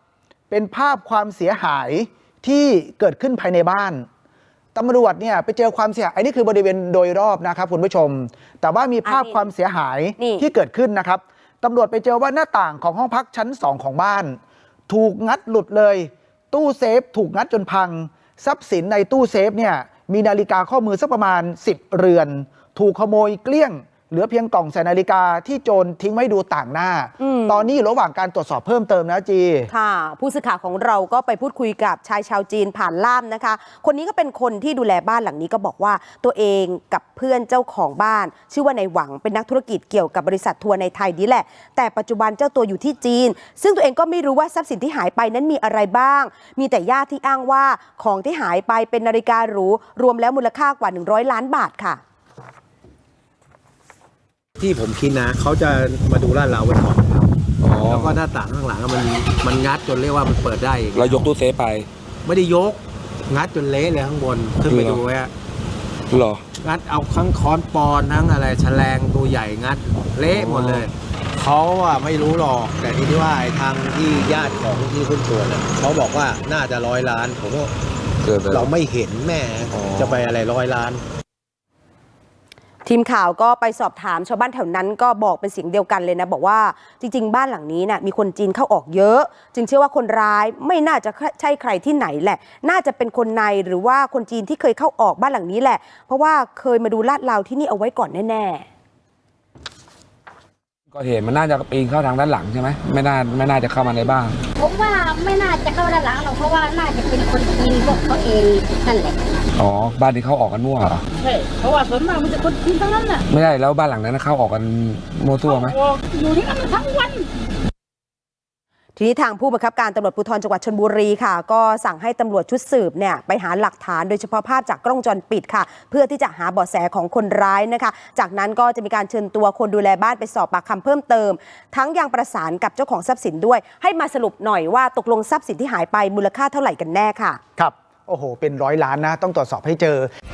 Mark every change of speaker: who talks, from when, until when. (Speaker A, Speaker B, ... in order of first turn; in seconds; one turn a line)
Speaker A: 0.5-4.1
Speaker A: 4.8-14.4
Speaker B: 9.1-9.5
Speaker B: 10.2-10.4
Speaker A: 14.9-29.7
Speaker B: 27.2-27.6
Speaker B: 29.7-52.0
Speaker C: 54.6-57.3
Speaker D: 57.6-58.2
Speaker C: 57.9-61.2
Speaker D: 60.9-61.9
Speaker C: 62.2-65.3
Speaker D: 64.7-65.0
Speaker D: 66.1-66.4
Speaker C: 66.6-77.7
Speaker D: 70.3-70.9
Speaker D: 78.2-78.7
Speaker C: 78.5-81.0
Speaker D: 79.7-80.3
Speaker B: 82.9-98.7
Speaker D: 100.9-104.4
Speaker E: 104.6-109.5
Speaker D: 109.6-111.0
Speaker E: 111.2-113.2
Speaker D: 113.3-115.8
Speaker E: 115.5-117.3
Speaker B: 119.0-137.4
Speaker A: 137.6-140.1